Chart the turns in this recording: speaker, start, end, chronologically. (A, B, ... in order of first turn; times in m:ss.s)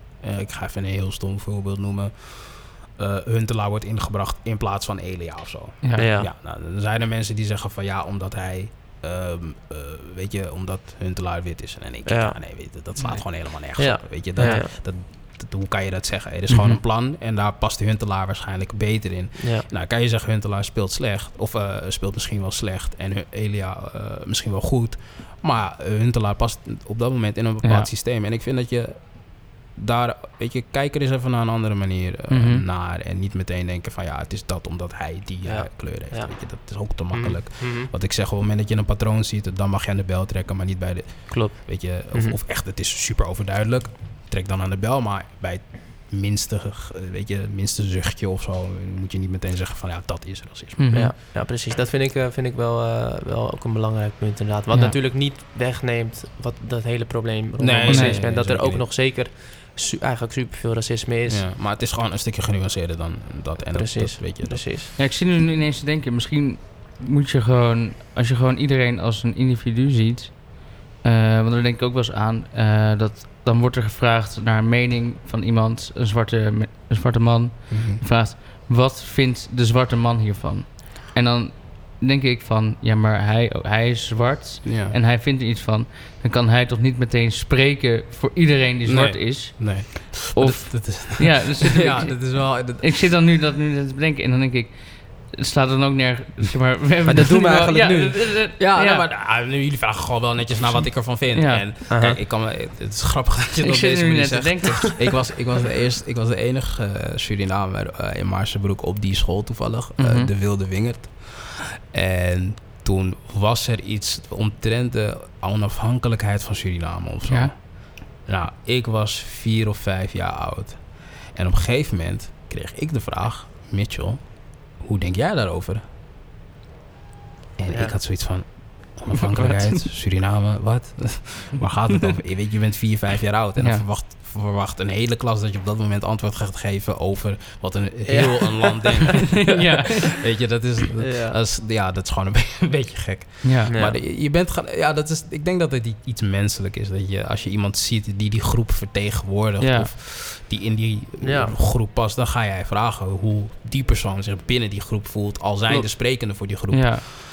0:00.2-0:51.0 A
0:06.0-0:06.3 B
0:12.0-0:12.4 B
0:13.0-0:13.3 C
0:13.7-0:14.7 B
0:16.5-0:16.8 C
0:19.4-0:19.7 B
0:27.6-0:27.9 C
0:32.3-0:32.6 C
0:35.4-0:37.9 B
0:41.3-0:42.4 B
0:50.8-0:51.1 C
0:50.9-1:01.4 B
0:57.6-0:58.9 A
0:57.9-0:58.2 C
1:01.3-1:04.6 A
1:03.7-1:04.9 B
1:05.0-1:39.0 C
1:17.7-1:18.0 A
1:24.6-1:25.0 A
1:28.8-1:33.0 A
1:37.0-1:38.3 B
1:38.6-2:05.8 A
1:41.3-1:41.7 C
1:41.9-1:42.2 B
1:43.6-1:45.3 C
1:50.0-1:50.3 C
1:57.3-1:57.5 C
2:07.6-2:37.0 A
2:07.7-2:08.0 B
2:09.2-2:09.8 C
2:13.6-2:13.8 C
2:18.1-2:19.1 B
2:19.4-2:20.2 C
2:21.0-2:21.4 B
2:23.4-2:23.7 C
2:23.7-2:24.0 B
2:29.6-2:29.9 C
2:31.2-2:31.5 B
2:36.7-2:37.0 C